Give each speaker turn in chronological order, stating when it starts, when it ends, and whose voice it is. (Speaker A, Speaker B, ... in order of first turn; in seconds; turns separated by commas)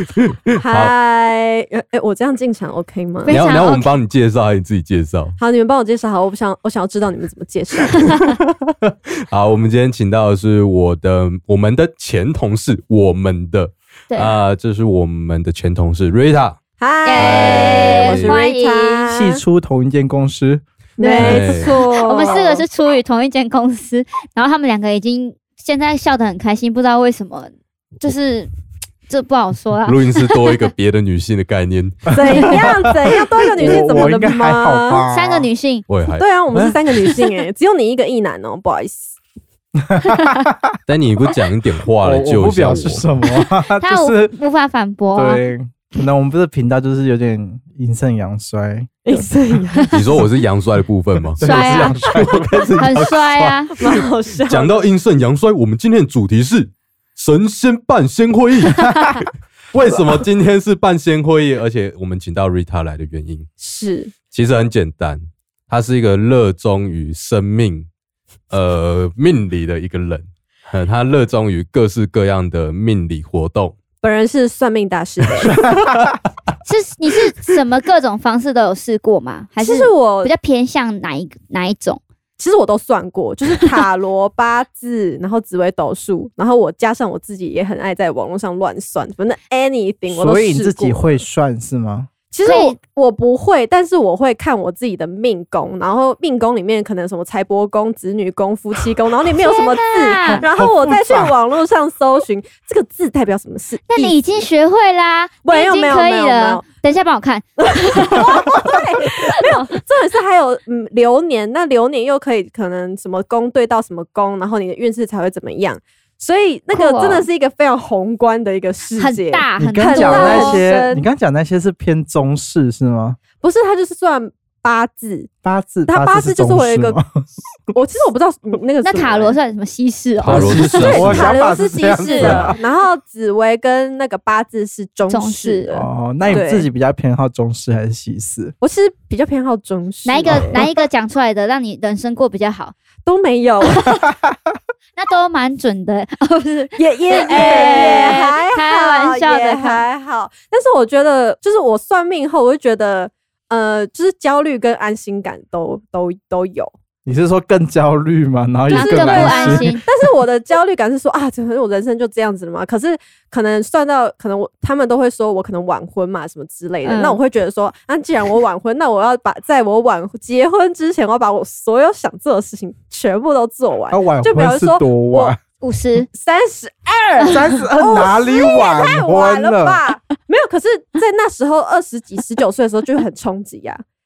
Speaker A: 0.2-0.9, Speaker B: 0.6-3.6, Speaker C: 3.2-3.9, Speaker A: 3.3-5.4, Speaker B: 5.4-8.2, Speaker A: 9.3-16.6, Speaker C: 14.1-14.3, Speaker B: 16.8-19.4, Speaker C: 17.0-19.1, Speaker A: 17.2-18.4, Speaker D: 19.1-20.6, Speaker B: 21.0-22.6, Speaker C: 21.0-28.5, Speaker A: 21.2-21.7, Speaker C: 29.1-30.7, Speaker A: 29.9-32.7, Speaker D: 32.1-32.9, Speaker B: 32.1-35.0, Speaker D: 33.6-35.5, Speaker C: 35.1-35.9, Speaker A: 35.9-37.3, Speaker B: 36.2-39.1, Speaker D: 39.8-40.8, Speaker A: 40.9-43.0, Speaker D: 42.0-44.3, Speaker C: 43.8-45.4, Speaker D: 45.1-49.3, Speaker B: 49.0-50.0, Speaker A: 49.9-53.1, Speaker D: 51.3-53.7, Speaker C: 51.4-52.0, Speaker C: 52.8-53.7, Speaker B: 53.8-54.8, Speaker A: 53.8-63.5, Speaker B: 63.6-64.1, Speaker A: 64.3-67.9, Speaker A: 68.5-73.7, Speaker B: 74.0-75.7, Speaker D: 75.7-76.1, Speaker C: 76.6-82.0, Speaker B: 79.6-80.3, Speaker B: 82.4-91.2, Speaker D: 90.1-92.1, Speaker B: 92.3-104.2, Speaker C: 92.4-92.8, Speaker C: 99.4-100.4, Speaker D: 100.4-101.3, Speaker C: 103.9-108.7, Speaker B: 105.4-106.6, Speaker B: 107.6-121.0, Speaker C: 109.3-109.7, Speaker C: 116.7-117.3, Speaker C: 119.0-120.6, Speaker D: 119.6-123.2, Speaker B: 123.4-125.3, Speaker D: 125.4-127.2, Speaker B: 125.9-127.0, Speaker B: 127.7-129.4, Speaker C: 128.8-131.3, Speaker A: 130.2-131.3, Speaker D: 130.3-132.5, Speaker B: 130.6-136.7, Speaker C: 131.8-132.3, Speaker A: 132.2-132.5, Speaker C: 135.1-135.7, Speaker D: 135.7-138.5, Speaker B: 138.6-140.6, Speaker C: 140.0-142.7, Speaker B: 143.0-144.0, Speaker C: 144.9-149.8, Speaker B: 146.8-156.7, Speaker D: 147.3-148.0, Speaker D: 157.0-159.8, Speaker C: 158.7-159.8, Speaker B: 158.7-175.3, Speaker C: 166.8-167.2, Speaker D: 173.9-175.4, Speaker C: 175.6-176.1, Speaker B: 176.1-183.8, Speaker C: 177.2-177.5, Speaker D: 177.3-179.8